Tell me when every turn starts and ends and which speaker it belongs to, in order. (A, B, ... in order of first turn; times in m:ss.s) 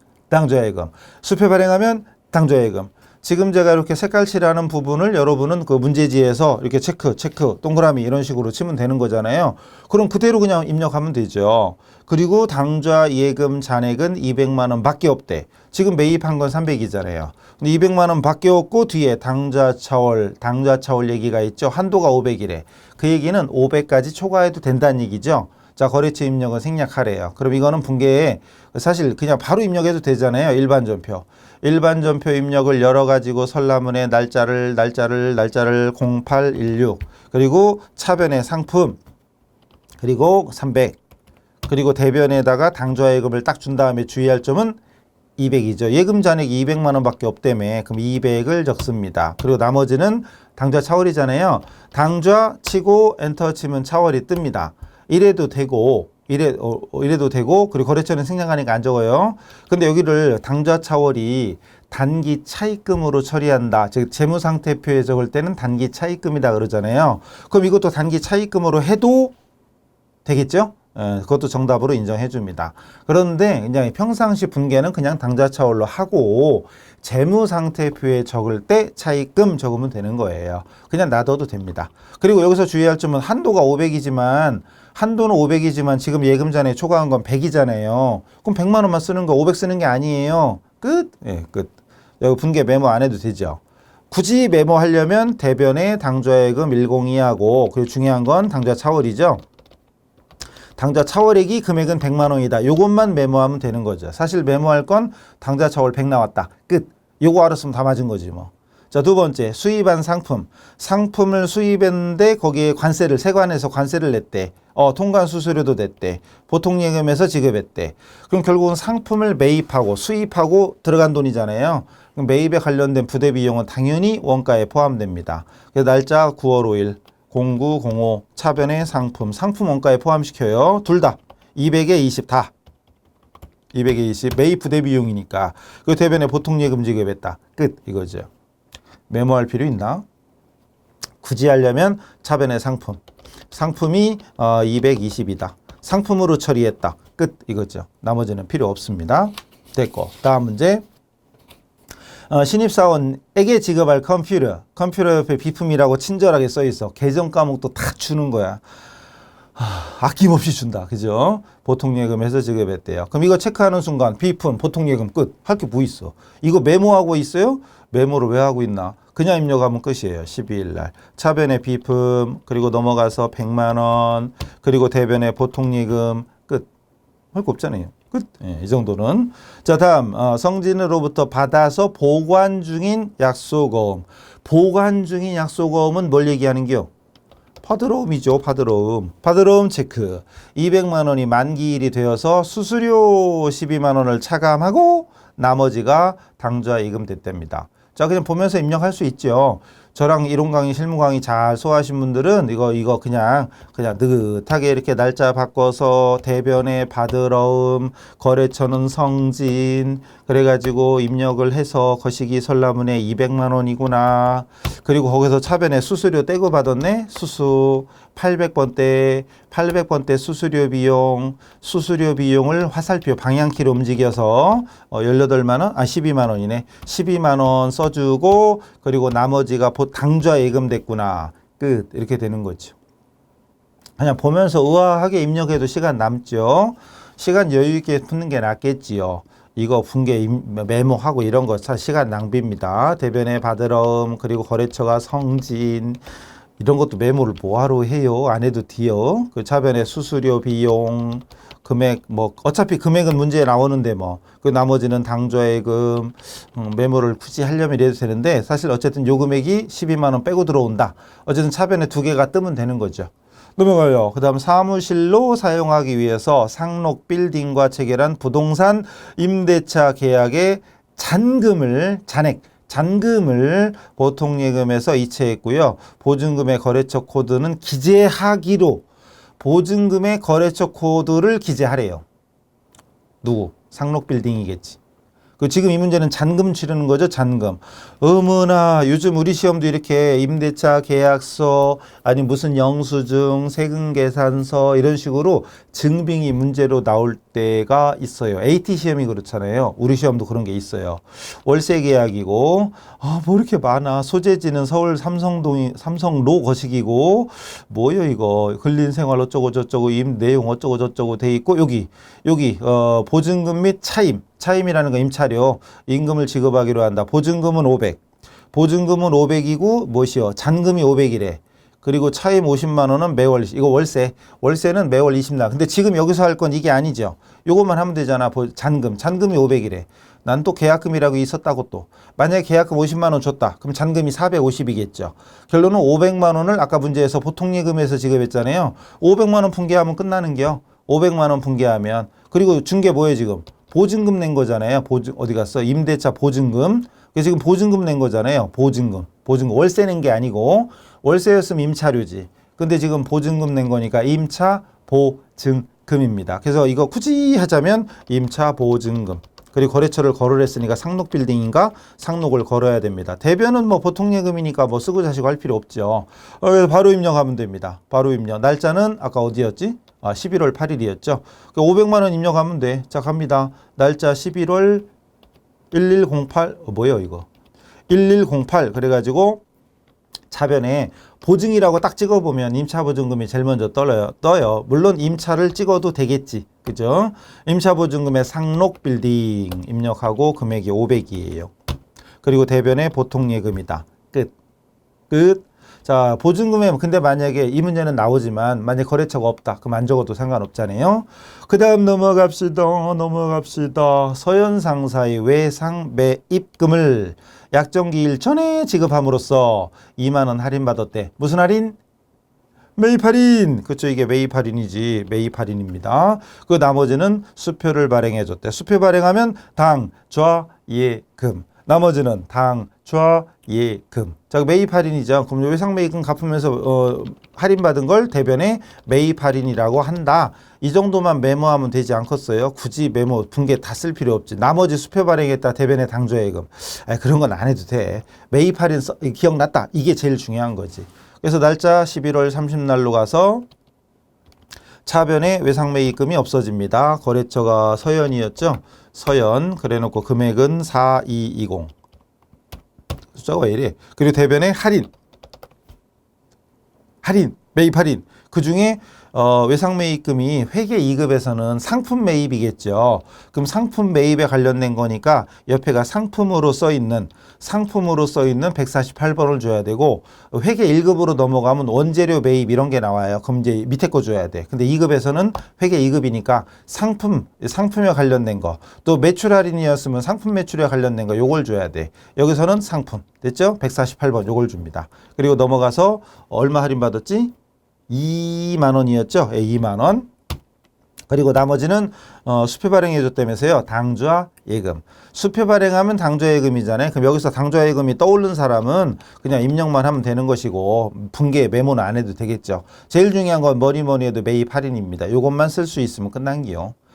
0:00.3-0:39.0 A
0:40.0-0:41.0 A
0:41.6-0:44.8 A
0:45.4-1:09.3 A
1:10.2-1:39.4 A
1:40.8-2:12.5 A
2:13.7-2:18.3 A
2:19.1-2:20.0 A
2:21.2-2:23.0 A
2:23.5-2:30.8 A
2:32.3-2:38.6 A
2:39.6-2:56.7 A
2:57.3-3:06.9 A
3:07.6-3:52.7 A
3:54.0-4:06.0 A
4:06.6-4:38.8 A
4:39.4-4:42.0 A
4:43.2-4:44.8 A
4:45.4-5:18.0 A
5:18.5-6:14.9 A
6:15.7-6:17.2 A
6:17.9-6:19.4 A
6:20.3-6:31.5 A
6:32.2-6:34.3 A
6:35.1-6:51.8 A
6:52.8-7:23.4 A
7:24.8-7:31.7 A
7:33.1-7:34.9 A
7:37.0-8:07.3 A
8:07.9-8:10.1 A
8:11.1-8:26.7 A